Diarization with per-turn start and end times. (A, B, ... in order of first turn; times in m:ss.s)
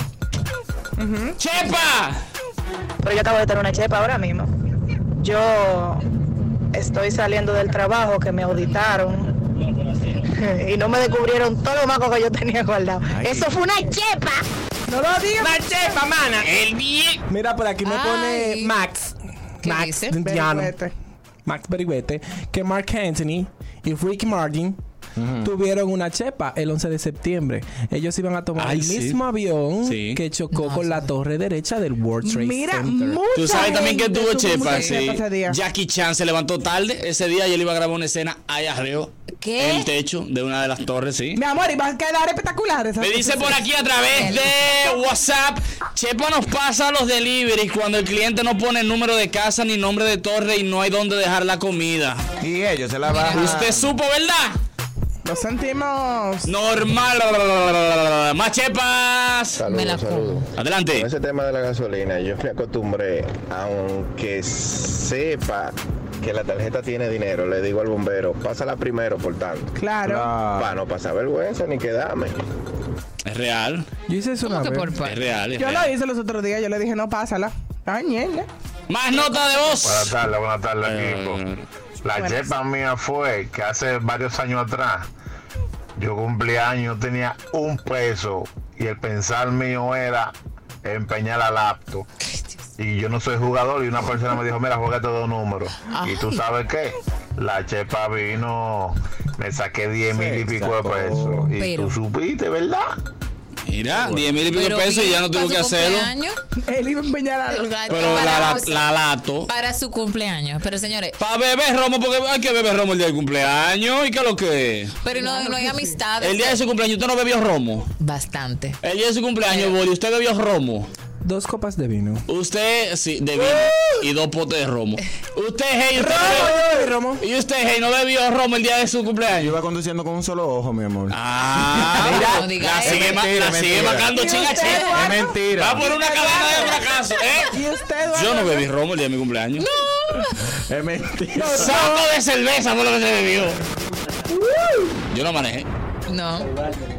0:01.0-0:01.3 A
0:01.4-0:02.2 B
0:03.0-0:04.5 C
0:05.2-0:06.0 C
0:06.7-0:09.3 C
0:10.4-0:14.4 C
0:13.1-0:13.5 D
0:14.9-0:16.5 E
0:16.4-0:17.2 B
0:17.3-0:20.7 E
0:17.8-0:18.7 F
0:19.6-0:20.2 F
0:20.2-0:20.9 A
0:21.5-0:24.8 E
0:25.2-0:25.5 D
0:25.4-0:33.2 E
0:28.6-0:29.2 B
0:29.8-0:30.2 B
0:30.5-0:31.0 F
0:32.2-0:35.6 A
0:33.4-0:41.4 B
0:34.6-0:35.0 F
0:39.4-0:39.9 F
0:41.4-0:43.6 A
0:43.0-0:52.2 B
0:44.2-0:44.6 F
0:52.4-0:53.9 D
0:53.1-0:53.4 F
0:53.3-0:54.6 B
0:55.2-0:56.5 A
0:56.5-0:59.6 B
0:59.6-1:09.7 G
0:59.6-1:00.5 F
1:00.6-1:01.1 B
1:09.8-1:10.3 A
1:10.0-1:10.7 D
1:10.6-1:12.4 G
1:13.2-1:13.9 B
1:14.1-1:15.0 E
1:14.4-1:15.2 F
1:15.0-1:15.9 B
1:15.6-1:18.5 A
1:18.9-1:20.1 B
1:19.8-1:21.5 H
1:20.9-1:21.4 B
1:22.0-1:25.1 H
1:26.0-1:32.0 H
1:32.8-1:43.0 H
1:35.9-1:36.4 F
1:40.1-1:41.5 D
1:41.5-1:42.0 F
1:43.7-1:46.1 B
1:43.9-1:44.3 D
1:44.5-1:46.4 F
1:46.7-1:48.5 A
1:47.5-1:48.8 F
1:47.9-1:49.5 B
1:49.5-1:51.2 F
1:51.2-1:55.0 B
1:55.0-1:56.6 F
1:55.2-1:55.8 A
1:56.2-1:57.9 B
1:58.0-1:58.8 F
1:58.8-2:00.9 B
1:59.5-1:59.8 F
2:01.2-2:02.2 E
2:02.3-2:06.6 B
2:06.0-2:07.2 E
2:07.2-2:09.6 B
2:09.3-2:14.3 D
2:11.1-2:17.6 B
2:12.1-2:13.2 F
2:14.2-2:16.8 A
2:14.6-2:14.9 F
2:14.9-2:15.9 D
2:17.5-2:18.6 A
2:18.1-2:19.7 B
2:19.6-2:20.3 F
2:20.7-2:21.9 D
2:21.4-2:23.6 B
2:25.1-2:25.7 B
2:26.1-2:26.5 F